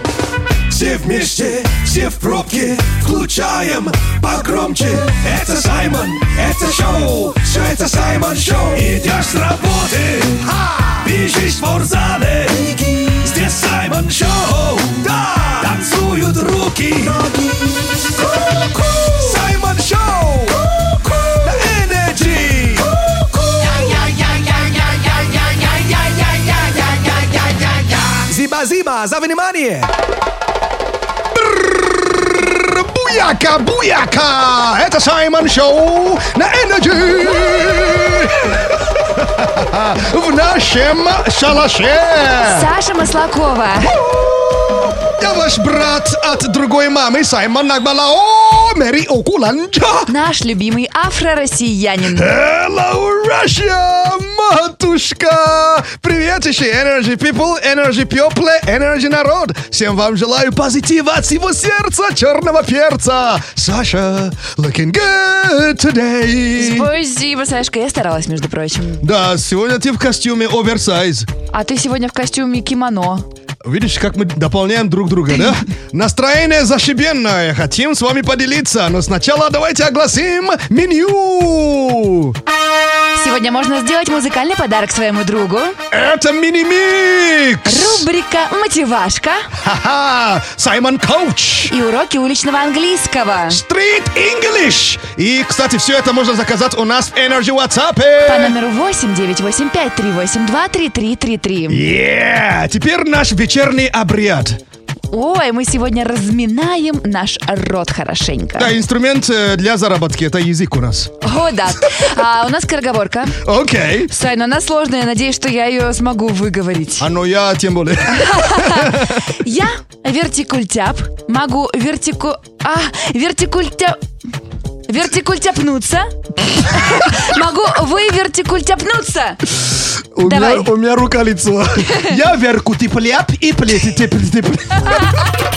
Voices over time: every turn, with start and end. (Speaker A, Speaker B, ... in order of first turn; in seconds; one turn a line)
Speaker A: 0.7-2.3
Speaker B: 0.8-9.0
Speaker A: 8.8-10.3
Speaker A: 11.0-12.5
Speaker B: 12.4-20.5
Speaker A: 13.3-14.1
Speaker A: 15.6-17.0
Speaker B: 21.2-22.8
Speaker B: 23.4-29.9
Speaker A: 31.4-42.7
Speaker C: 42.4-43.9
Speaker A: 43.9-50.1
Speaker C: 50.1-52.3
Speaker A: 52.1-66.9
Speaker C: 66.5-69.0
Speaker A: 69.0-71.3
Speaker C: 71.5-73.2
Speaker A: 73.6-82.4
Speaker C: 83.1-85.8
Speaker A: 85.9-88.0
Speaker C: 87.7-89.5
Speaker A: 89.6-91.7
Speaker C: 91.7-93.6
Speaker A: 93.5-98.5
Speaker C: 98.2-101.8
Speaker A: 101.7-104.6
Speaker C: 105.1-108.7
Speaker A: 108.5-111.1
Speaker C: 111.2-113.4
Speaker A: 113.4-114.1
Speaker C: 114.1-117.1
Speaker A: 117.0-119.2
Speaker C: 118.1-124.0
Speaker C: 124.9-129.4
Speaker A: 130.1-135.0
Speaker C: 130.2-130.7
Speaker C: 131.8-132.1